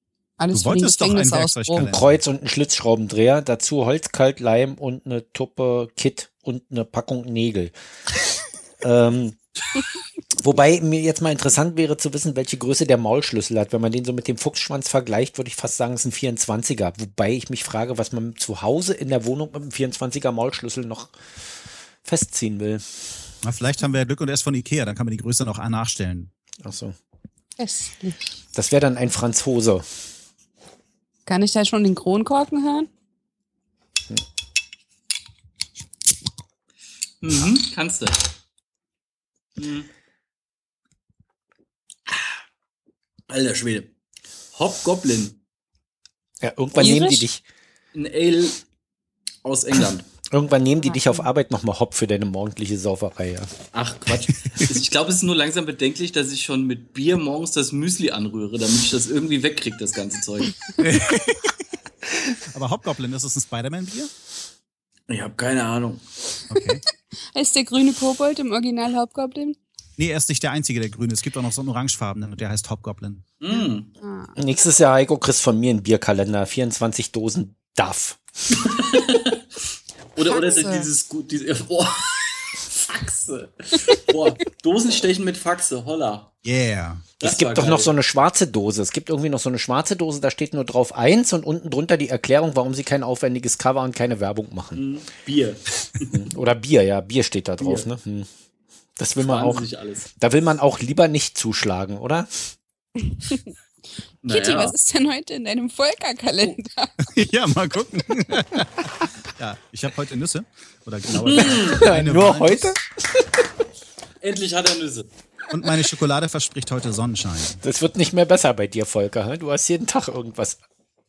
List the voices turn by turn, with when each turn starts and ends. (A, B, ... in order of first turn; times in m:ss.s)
0:00.4-0:01.9 A
0:00.5-0:02.2 B
0:01.8-0:07.7 C
0:08.8-0:09.4 C
0:10.4-0:21.2 C
0:22.0-0:22.8 C
0:23.4-0:26.3 B
0:26.6-0:26.9 C
0:27.6-0:28.4 A
0:28.5-0:29.8 C
0:31.2-0:32.9 A
0:37.2-0:38.3 D
0:39.6-0:39.9 D
0:42.1-0:42.3 D
0:43.3-0:43.9 D
0:44.5-0:45.4 D
0:46.4-0:47.4 C
0:46.8-0:47.3 A
0:47.9-0:48.6 D
0:49.4-0:50.1 D
0:50.3-0:53.5 C
0:50.8-0:51.3 A
0:53.7-1:00.6 D
1:00.8-1:01.2 B
1:02.5-1:04.1 B
1:05.1-1:06.0 D
1:06.5-1:06.8 B
1:06.5-1:06.8 A
1:07.3-1:09.6 A
1:10.0-1:13.2 B
1:13.4-1:13.9 D
1:13.5-1:14.3 A
1:14.4-1:18.2 C
1:18.6-1:19.4 D
1:20.1-1:26.3 D
1:20.2-1:20.9 A
1:26.4-1:27.1 B
1:27.2-1:27.9 D
1:27.2-1:34.8 C
1:34.8-1:36.3 D
1:36.1-1:38.3 C
1:37.6-1:37.9 D
1:39.0-1:39.6 C
1:39.2-1:40.1 D
1:40.2-1:42.3 C
1:43.1-1:43.4 A
1:44.2-1:44.7 D
1:44.2-1:46.9 A
1:47.0-1:52.7 B
1:51.2-1:51.8 D
1:51.3-1:53.4 C
1:54.2-1:55.1 D
1:55.5-1:57.6 B
1:57.6-2:00.6 C